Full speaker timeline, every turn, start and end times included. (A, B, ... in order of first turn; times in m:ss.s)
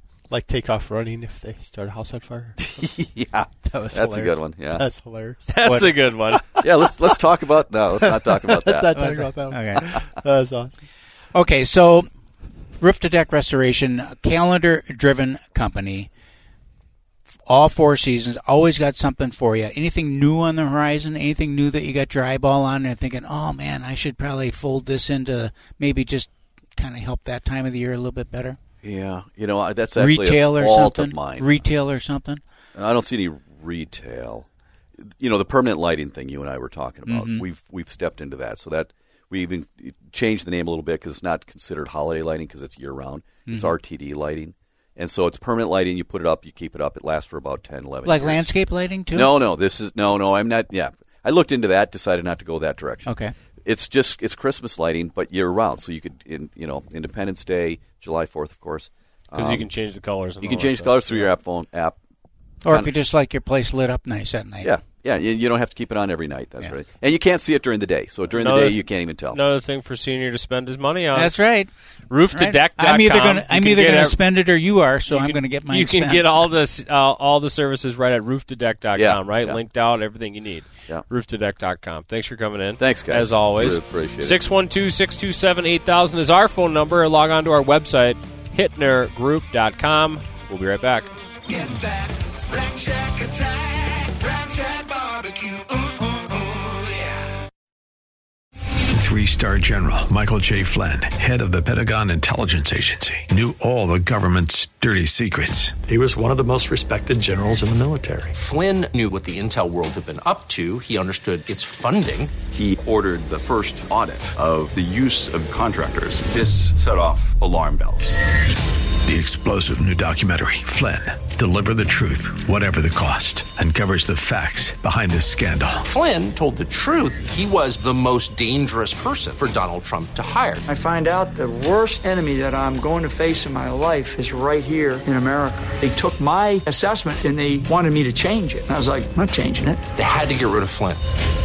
0:00.3-0:02.9 A
0:02.8-0:04.8 B
0:03.6-0:06.6 A
0:05.5-0:06.4 C
0:05.6-0:05.9 D
0:06.6-0:08.9 B
0:08.5-0:10.7 A
0:08.9-0:09.9 D
0:11.3-0:12.1 D
0:12.8-0:16.1 D
0:17.4-0:28.6 D
0:28.8-0:31.6 B
0:30.0-0:32.4 D
0:32.8-0:34.5 B
0:35.0-0:48.5 B
0:37.1-0:37.4 D
0:43.5-0:43.7 D
0:48.0-0:49.3 D
0:49.1-0:59.7 B
0:53.1-0:53.3 D
0:59.4-1:01.3 C
1:00.4-1:02.0 B
1:02.6-1:04.7 D
1:02.6-1:02.9 B
1:04.6-1:09.4 B
1:08.3-1:14.5 C
1:11.1-1:16.5 D
1:15.0-1:31.1 C
1:19.0-1:19.6 B
1:22.8-1:24.4 B
1:38.9-1:45.8 E
1:45.9-1:48.3 F
1:48.3-1:52.3 G
1:52.5-1:58.2 H
1:59.1-2:05.8 E
2:05.8-2:10.6 G
2:10.7-2:19.8 I
2:20.0-2:21.0 G